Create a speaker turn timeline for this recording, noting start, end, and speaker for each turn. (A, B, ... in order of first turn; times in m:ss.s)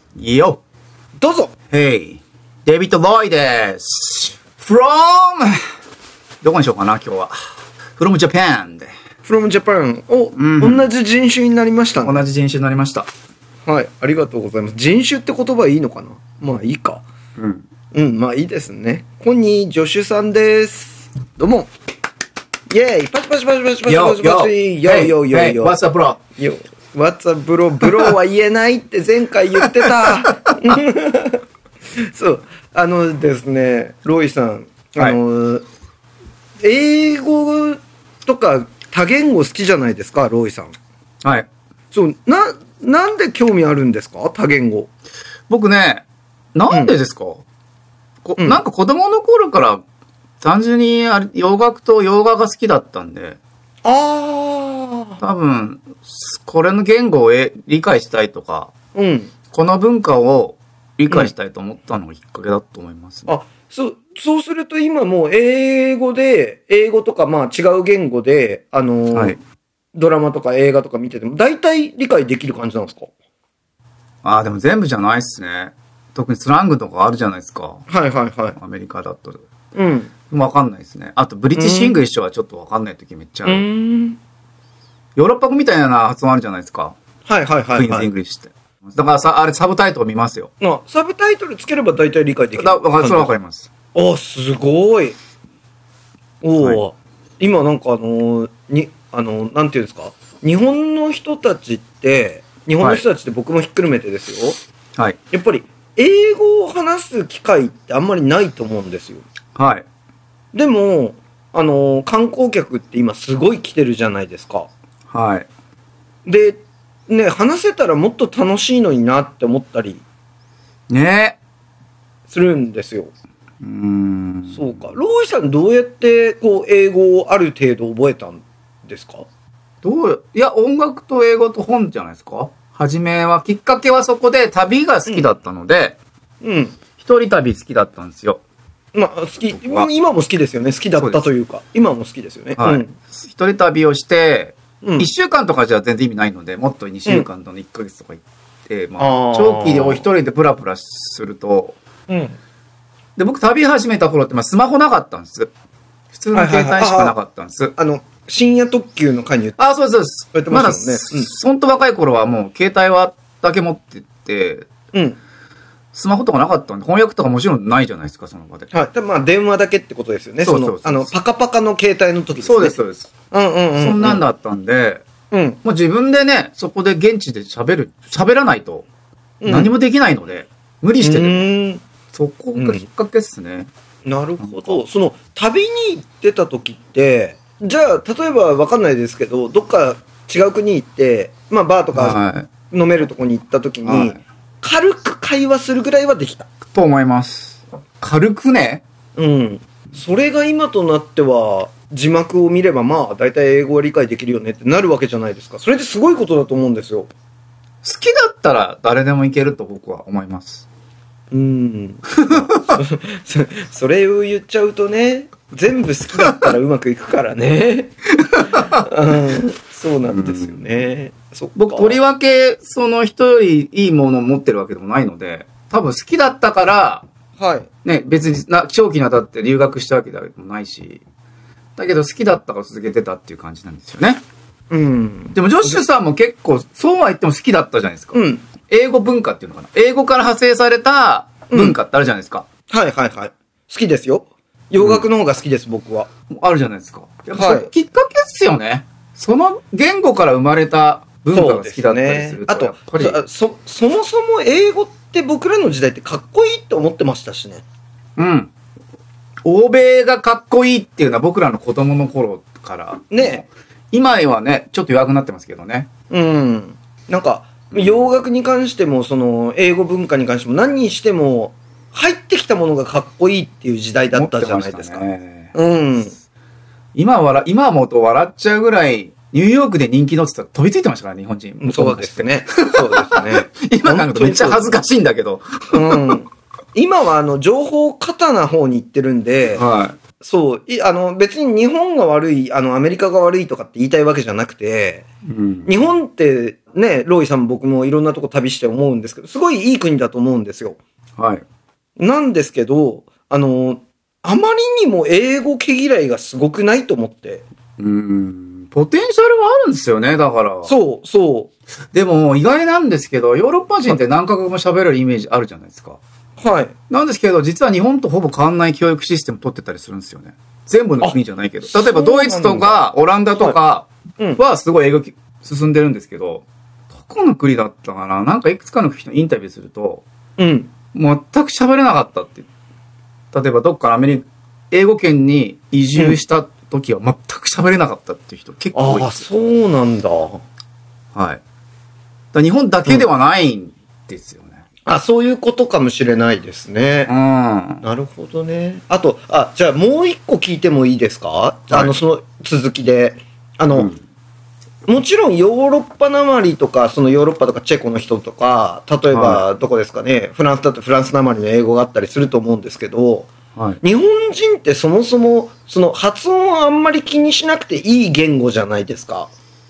0:00.2-0:00.6 A
0:01.2-0:01.5 B
0:01.7-0:05.6 A
0:06.4-0:07.4 A
0:08.0-0:08.9 A
0:09.2-0:12.2 B
0:10.4-0:10.9 A
0:12.0-0:13.1 A
0:13.7-0:17.0 B
0:17.4-0:17.6 A
0:17.9-0:21.7 B
0:22.7-0:25.8 B
0:23.9-0:26.2 A
0:26.4-0:31.4 B
0:32.0-0:35.6 B
0:36.6-0:40.7 B
0:41.2-0:41.5 A
0:41.9-0:44.9 B
0:45.5-0:47.4 A
0:46.7-0:47.0 B
0:48.2-0:49.8 A
0:50.4-0:53.4 A
0:53.8-0:55.2 B
0:55.2-0:58.7 A
0:58.9-0:59.3 B
0:59.5-1:03.3 A
1:03.3-1:09.4 B
1:09.1-1:09.4 A
1:09.9-1:13.1 B
1:14.2-1:17.9 A
1:17.9-1:18.6 B
1:18.6-1:19.4 A
1:19.8-1:20.1 B
1:20.3-1:23.6 A
1:21.5-1:21.9 B
1:23.4-1:24.2 B
1:25.2-1:27.0 A
1:27.2-1:28.1 B
1:27.8-1:30.5 A
1:30.6-1:33.3 B
1:32.6-1:33.7 A
1:33.9-1:35.2 B
1:36.4-1:44.6 B
1:45.3-1:49.2 B
1:49.6-1:49.8 A
1:50.5-1:54.7 B
1:55.1-1:55.5 A
1:56.2-2:00.0 B
2:00.9-2:01.4 A
2:02.3-2:03.1 B
2:03.6-2:04.8 A
2:04.5-2:09.3 B
2:09.8-2:16.0 A
2:16.4-2:16.8 B
2:17.0-2:18.4 A
2:18.9-2:22.9 B
2:19.5-2:19.9 A
2:21.0-2:21.2 A
2:22.6-2:31.8 A
2:24.8-2:25.1 B
2:29.0-2:30.1 B
2:32.1-2:32.4 B
2:33.2-2:35.5 A
2:36.1-2:37.7 A
2:36.3-2:37.2 B
2:37.8-2:39.6 B
2:39.6-2:44.7 A
2:40.3-2:41.3 B
2:44.9-2:45.2 B
2:45.9-2:48.7 A
2:48.7-2:52.8 B
2:50.4-2:51.1 A
2:52.4-2:53.1 A
2:53.3-2:54.2 B
2:53.8-2:55.0 A
2:55.3-2:55.6 B
2:55.6-2:58.9 A
2:59.4-2:59.7 B
2:59.5-3:01.5 A
3:01.0-3:01.8 B
3:02.1-3:03.7 A
3:02.6-3:02.8 B
3:04.0-3:12.2 B
3:04.4-3:04.8 A
3:11.9-3:12.5 A
3:12.7-3:16.5 B
3:13.8-3:14.2 A
3:16.7-3:18.8 A
3:19.2-3:27.1 B
3:27.8-3:30.6 A
3:31.3-3:37.9 B
3:32.2-3:32.8 A
3:38.3-3:38.8 A
3:38.5-3:42.0 B
3:40.1-3:40.6 A
3:41.6-3:47.0 A
3:47.4-3:47.7 B
3:47.8-3:51.0 A
3:51.8-3:54.2 A
3:54.7-3:55.8 B
3:55.3-4:02.4 A
3:58.1-3:58.4 B
4:01.5-4:01.8 B
4:02.7-4:06.1 B
4:04.8-4:05.0 A
4:06.3-4:13.2 A
4:07.4-4:07.7 B
4:11.3-4:17.6 B
4:18.2-4:18.5 A
4:19.4-4:25.9 A
4:23.1-4:23.5 B
4:26.1-4:36.2 B
4:27.7-4:28.1 A
4:34.1-4:35.5 A
4:36.9-4:46.2 A
4:41.6-4:44.8 B
4:45.7-4:49.6 B
4:49.6-4:50.0 A
4:50.2-4:55.1 B
4:55.2-4:55.7 A
4:55.7-5:00.8 B
5:01.2-5:01.4 A
5:02.0-5:07.4 B
5:07.8-5:10.7 A
5:10.7-5:11.5 B
5:11.9-5:16.0 A
5:16.4-5:16.7 B
5:16.9-5:30.0 A
5:21.0-5:22.8 B
5:30.4-5:30.7 B
5:30.9-5:32.5 A
5:33.3-5:39.2 A
5:38.8-5:40.4 B
5:41.2-5:41.4 A
5:42.3-5:44.6 A
5:44.8-5:47.1 B
5:47.1-5:47.8 A
5:47.8-5:53.9 B
5:53.7-5:54.0 A
5:54.9-6:09.3 B
5:59.1-5:59.4 A